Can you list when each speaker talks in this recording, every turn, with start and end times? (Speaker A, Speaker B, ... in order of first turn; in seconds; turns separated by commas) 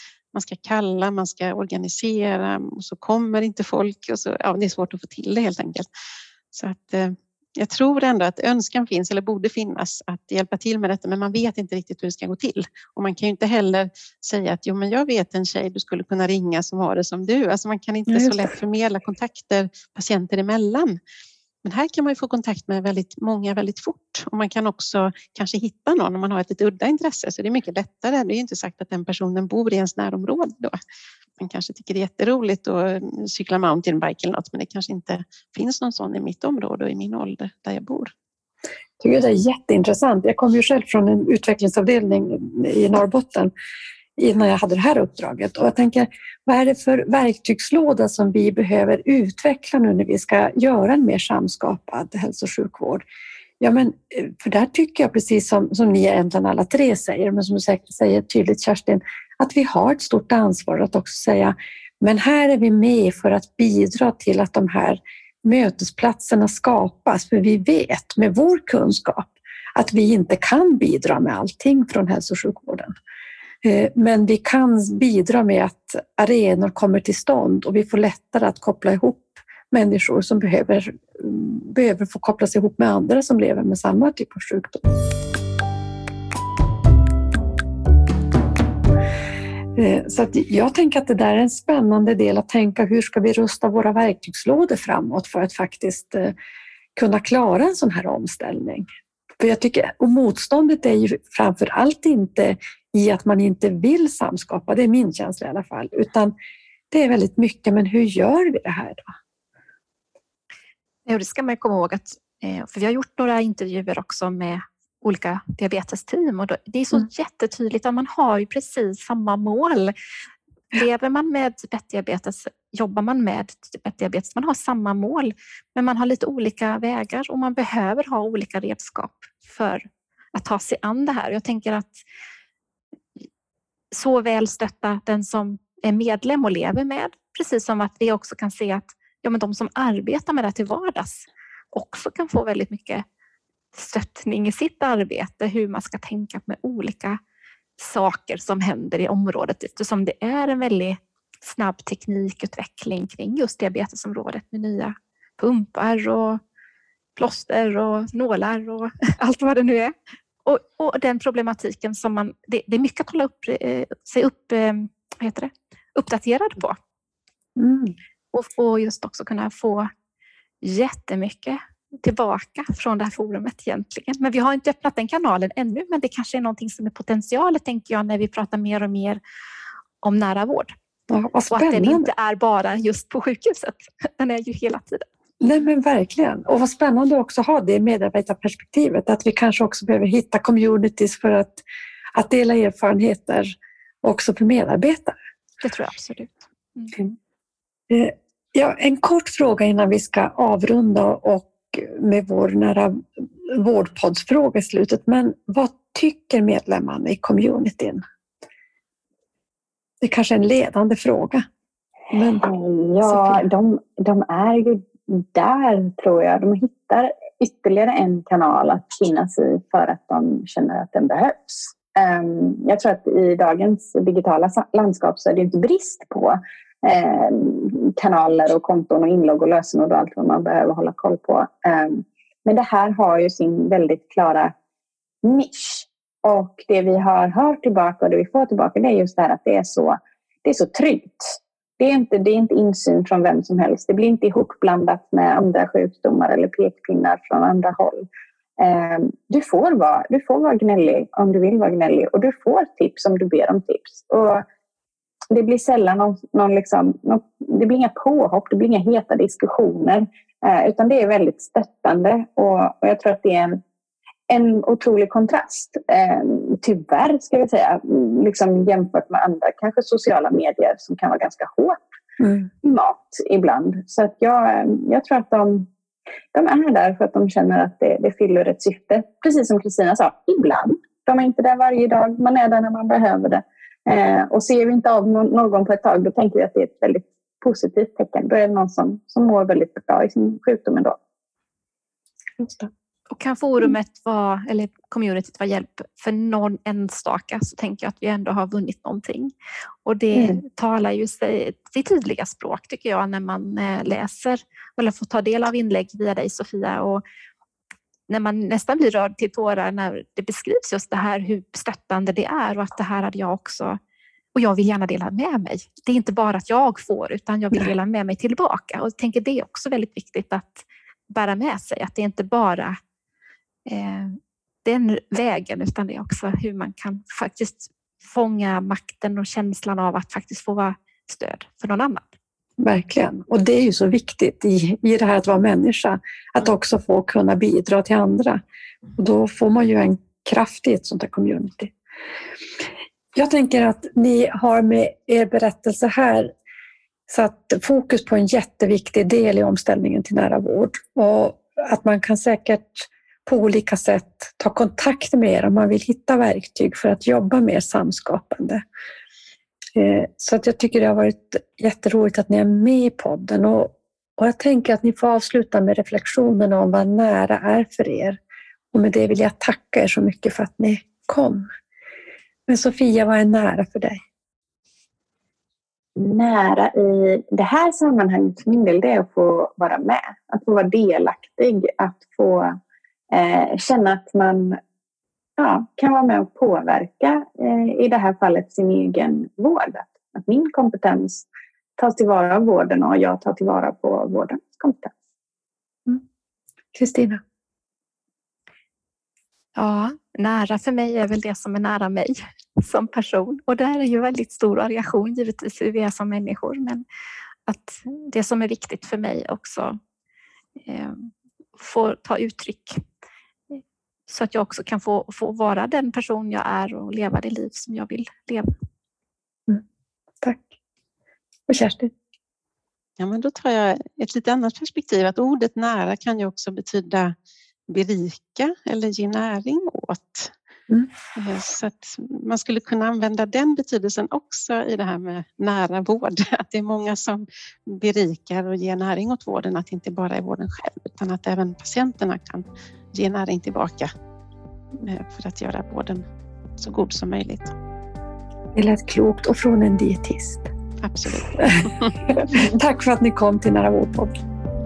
Speaker A: 0.3-5.9, Speaker A: 6.5-21.0, Speaker B: 18.1-18.5, Speaker A: 21.6-30.8, Speaker A: 31.4-38.1, Speaker B: 39.0-43.5, Speaker B: 44.2-53.0, Speaker B: 53.6-72.9, Speaker B: 73.6-84.8, Speaker B: 89.8-96.3, Speaker B: 97.0-98.9, Speaker B: 99.4-106.3, Speaker B: 106.9-109.1, Speaker C: 111.1-119.9, Speaker C: 120.7-132.0, Speaker C: 133.9-143.1, Speaker C: 143.7-147.2, Speaker C: 147.8-156.4, Speaker C: 157.2-159.9, Speaker C: 160.4-166.8, Speaker B: 167.6-167.9, Speaker C: 168.3-169.9, Speaker C: 170.6-179.2, Speaker C: 180.0-180.7, Speaker B: 181.1-182.1, Speaker C: 181.5-185.1, Speaker B: 185.4-191.6, Speaker B: 192.1-195.2, Speaker C: 195.6-197.0, Speaker B: 197.9-208.0, Speaker B: 210.0-211.5, Speaker B: 212.1-212.5, Speaker D: 212.4-234.5, Speaker B: 213.0-213.5, Speaker D: 235.2-248.1, Speaker D: 248.6-254.4, Speaker D: 255.3-263.6, Speaker D: 264.3-271.8, Speaker B: 272.2-272.5, Speaker D: 272.6-275.7, Speaker D: 276.3-291.0, Speaker B: 292.4-292.7, Speaker C: 293.1-299.3, Speaker C: 299.9-307.0, Speaker C: 308.1-313.8, Speaker C: 314.4-322.8, Speaker C: 323.7-332.1, Speaker B: 332.6-338.4, Speaker B: 339.0-341.7, Speaker B: 343.1-346.3, Speaker B: 347.1-358.6, Speaker B: 359.8-368.2, Speaker B: 368.7-371.5, Speaker B: 372.5-374.0, Speaker D: 376.0-382.6, Speaker D: 383.1-384.6, Speaker D: 385.4-391.3, Speaker D: 391.8-394.9, Speaker B: 396.7-397.2, Speaker C: 399.6-406.8, Speaker C: 407.5-409.8, Speaker C: 410.7-412.8, Speaker C: 413.5-418.5, Speaker B: 420.2-420.5, Speaker B: 421.5-421.9, Speaker A: 423.0-427.1, Speaker A: 427.7-430.3, Speaker A: 431.1-443.9, Speaker A: 444.8-446.1, Speaker A: 446.6-447.5, Speaker B: 448.6-450.5, Speaker A: 450.8-452.1, Speaker B: 451.4-454.2